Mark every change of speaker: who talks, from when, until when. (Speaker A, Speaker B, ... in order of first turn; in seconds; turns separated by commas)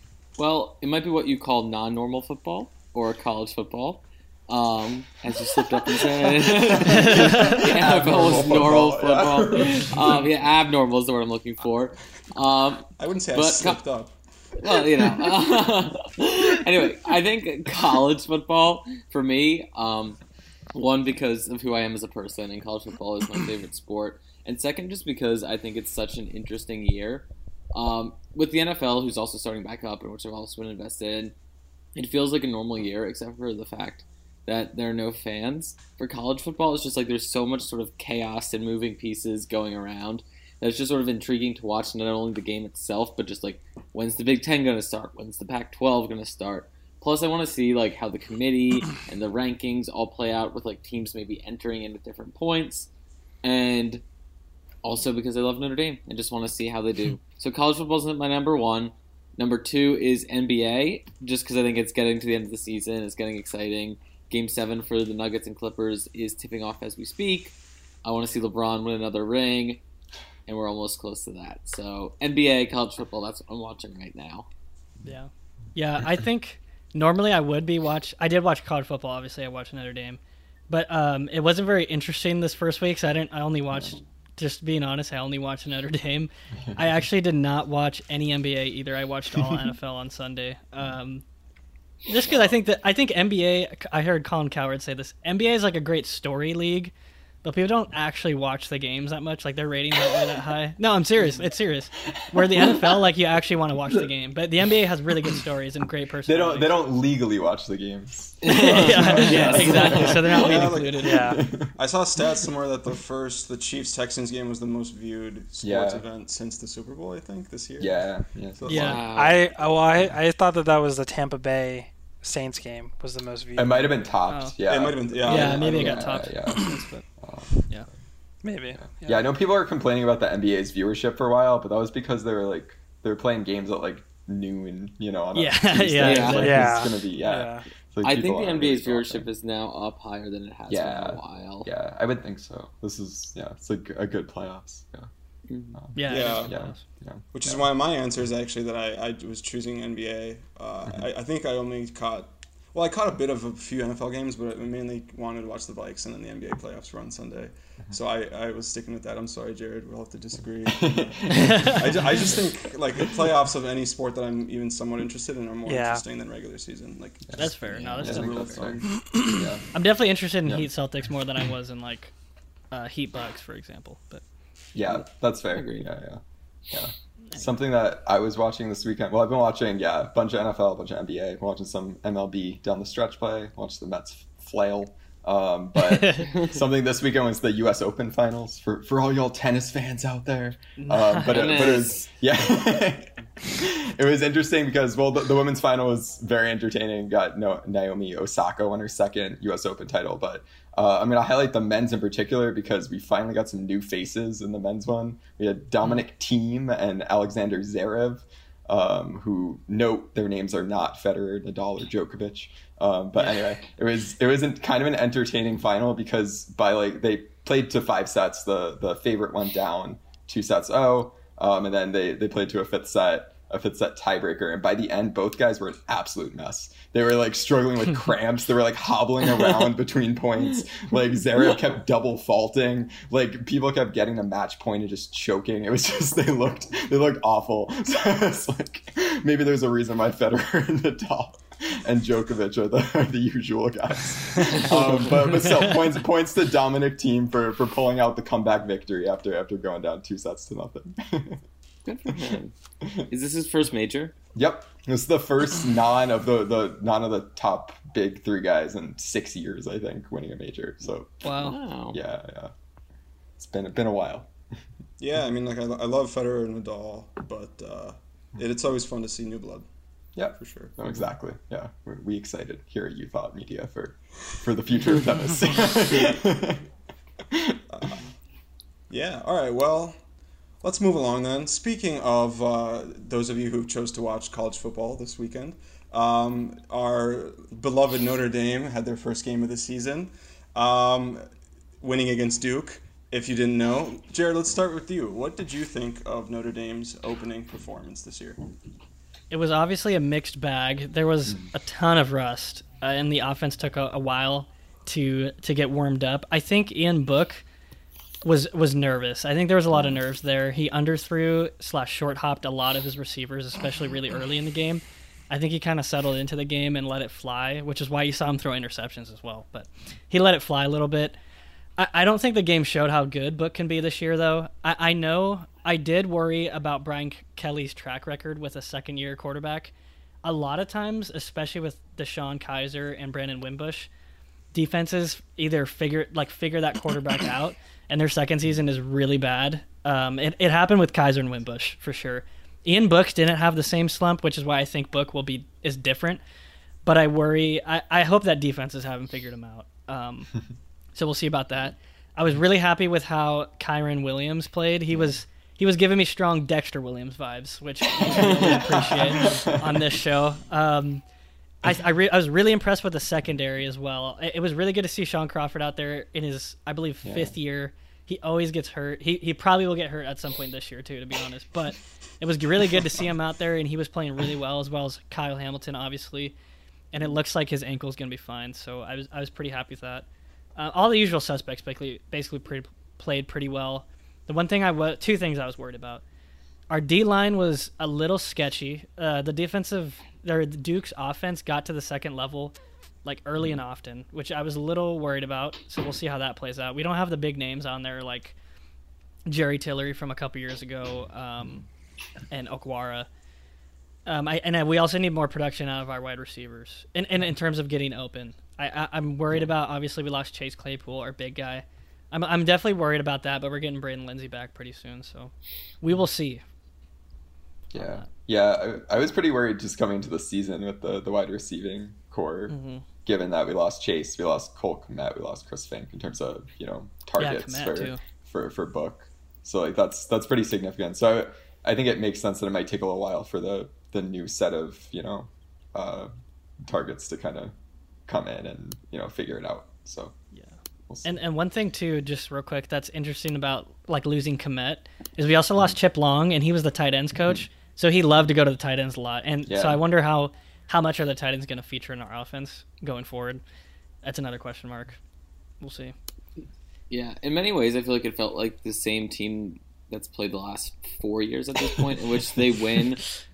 Speaker A: 0.4-13.8, Speaker B: 5.8-10.3, Speaker C: 7.6-8.6, Speaker C: 13.0-14.2, Speaker A: 14.6-20.2, Speaker A: 20.7-31.4, Speaker A: 31.9-52.9, Speaker A: 53.4-54.0, Speaker A: 54.8-67.5, Speaker A: 68.0-69.8, Speaker A: 70.5-74.5, Speaker D: 75.0-91.2, Speaker B: 83.7-84.0, Speaker D: 92.1-96.9, Speaker D: 97.4-106.8, Speaker B: 102.3-103.0, Speaker B: 106.3-111.7, Speaker A: 108.4-110.0, Speaker D: 108.5-111.4, Speaker C: 108.7-119.1, Speaker E: 111.0-111.4, Speaker B: 115.6-116.0, Speaker B: 117.8-119.0, Speaker D: 118.7-119.0, Speaker A: 118.8-119.4, Speaker E: 119.0-123.9, Speaker B: 123.6-127.5, Speaker D: 124.3-124.5, Speaker C: 124.6-126.2, Speaker D: 125.2-127.0, Speaker E: 128.4-129.3, Speaker B: 128.8-139.3, Speaker D: 135.3-136.9, Speaker A: 136.0-136.7, Speaker E: 136.3-137.7, Speaker A: 138.0-141.7, Speaker B: 140.7-145.1, Speaker A: 145.5-145.8, Speaker B: 145.7-147.6, Speaker D: 145.9-146.8, Speaker C: 146.1-146.5, Speaker C: 147.3-169.0, Speaker B: 160.7-162.4, Speaker D: 161.3-161.8, Speaker E: 165.7-166.0, Speaker B: 167.3-169.7, Speaker D: 167.4-168.7, Speaker D: 169.7-172.1, Speaker D: 172.7-174.2, Speaker B: 174.8-251.4, Speaker A: 174.9-175.9, Speaker D: 190.8-191.7, Speaker A: 191.2-192.1, Speaker A: 231.3-231.6, Speaker A: 244.5-245.4, Speaker A: 251.9-252.6, Speaker B: 252.1-253.1, Speaker A: 253.1-254.2, Speaker B: 254.3-262.5, Speaker D: 261.2-261.6, Speaker A: 261.4-262.0, Speaker B: 263.4-264.3, Speaker C: 265.0-269.6, Speaker B: 270.2-276.6, Speaker C: 270.4-270.7, Speaker B: 277.3-277.6, Speaker C: 277.7-278.0, Speaker C: 278.9-280.0, Speaker C: 280.6-291.2, Speaker C: 291.8-298.4, Speaker D: 299.3-307.4, Speaker D: 308.2-321.2, Speaker D: 321.8-329.7, Speaker D: 330.2-333.9, Speaker D: 334.5-346.2, Speaker D: 346.9-350.3, Speaker D: 350.9-361.0, Speaker B: 358.0-359.9, Speaker A: 358.1-358.6, Speaker D: 361.6-376.4, Speaker B: 367.0-367.3, Speaker D: 376.9-380.1, Speaker D: 380.6-386.0, Speaker D: 386.7-398.4, Speaker D: 399.3-401.7, Speaker D: 402.3-403.1, Speaker D: 404.1-416.4, Speaker B: 417.7-436.1, Speaker D: 417.8-418.1, Speaker D: 422.5-422.8, Speaker D: 427.2-428.0, Speaker B: 436.6-437.5, Speaker B: 438.1-440.1, Speaker B: 440.9-441.2, Speaker D: 441.1-453.4, Speaker B: 449.5-449.8, Speaker D: 454.0-455.0, Speaker D: 455.6-455.9, Speaker A: 456.9-463.0